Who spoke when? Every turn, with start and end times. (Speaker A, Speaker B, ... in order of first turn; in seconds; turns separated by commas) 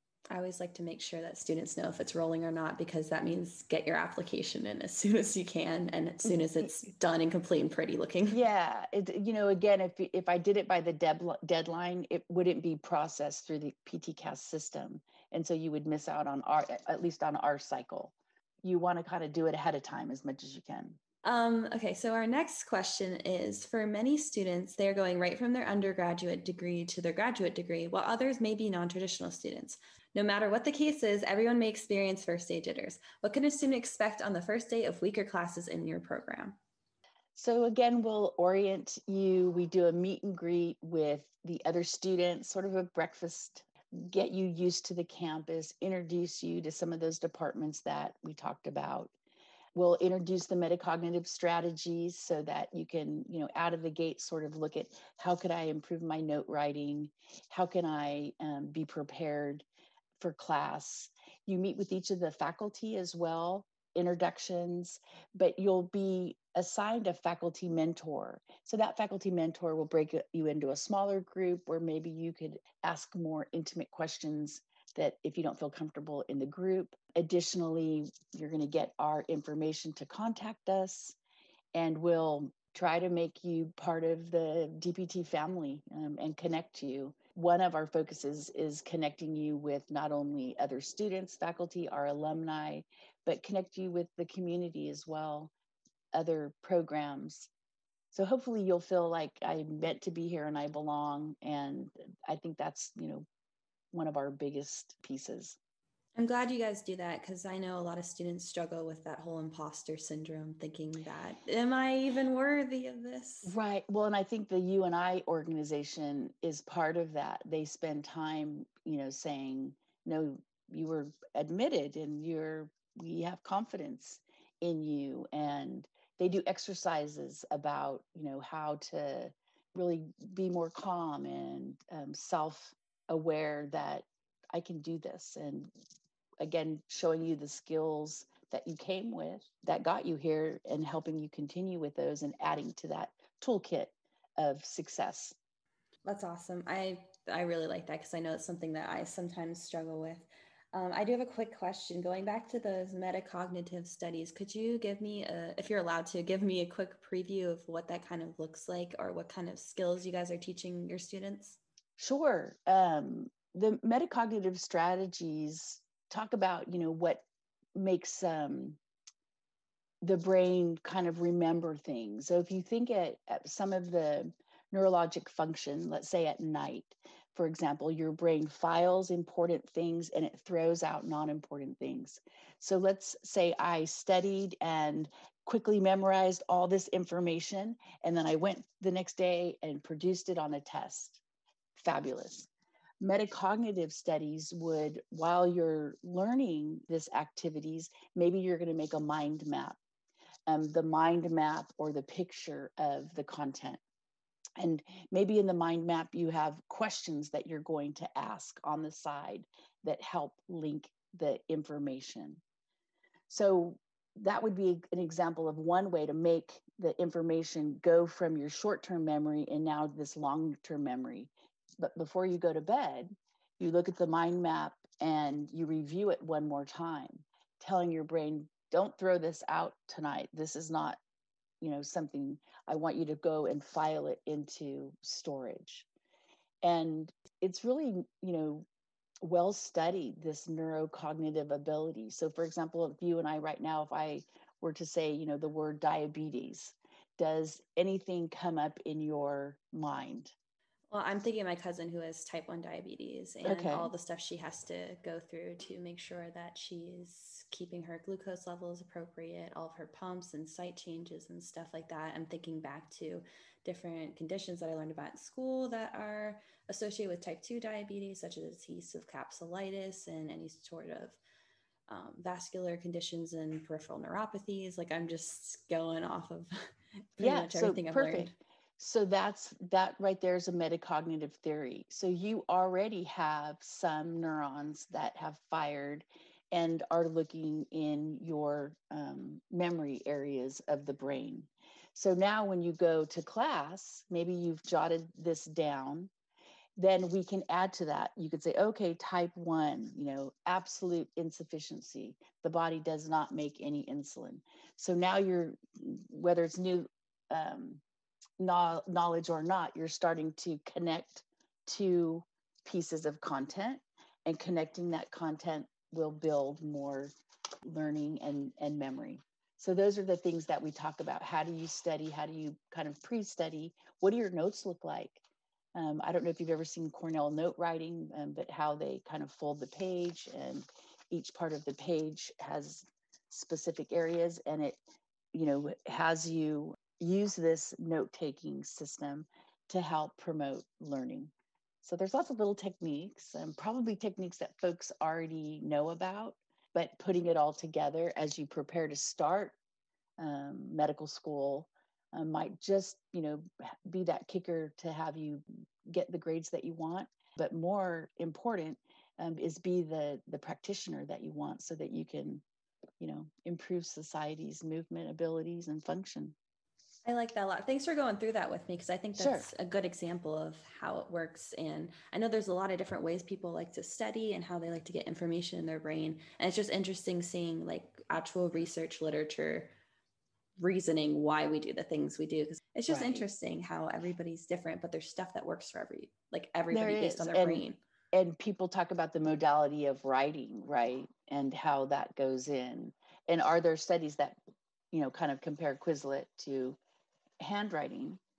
Speaker A: 0.3-8.4, Speaker B: 6.2-6.7, Speaker B: 8.3-21.0, Speaker A: 21.2-36.6, Speaker B: 37.3-49.1, Speaker B: 49.7-59.6, Speaker B: 60.2-81.2, Speaker B: 81.7-95.5, Speaker B: 96.1-97.5, Speaker B: 98.1-103.2, Speaker B: 103.9-105.6, Speaker A: 106.2-113.5, Speaker B: 113.4-135.7, Speaker B: 136.4-145.3, Speaker A: 146.0-161.6, Speaker B: 162.0-167.2, Speaker B: 167.8-168.8, Speaker B: 170.0-191.2, Speaker B: 191.8-192.5, Speaker B: 193.0-199.8, Speaker B: 200.5-203.8, Speaker B: 204.6-212.4, Speaker B: 213.3-231.0, Speaker B: 231.6-235.9, Speaker B: 236.6-238.7, Speaker B: 239.2-250.3, Speaker A: 250.9-271.2, Speaker B: 253.4-253.9, Speaker A: 271.9-278.3, Speaker B: 277.2-296.1, Speaker B: 296.8-307.8, Speaker B: 308.4-317.1, Speaker B: 317.6-325.2, Speaker B: 325.7-334.8, Speaker B: 335.3-341.3, Speaker B: 341.8-349.6, Speaker B: 350.2-362.4, Speaker B: 363.0-366.3, Speaker A: 367.0-379.7, Speaker B: 369.1-369.5, Speaker A: 380.6-387.8, Speaker B: 382.9-383.2, Speaker B: 386.7-394.4, Speaker B: 394.9-396.8, Speaker B: 397.4-398.2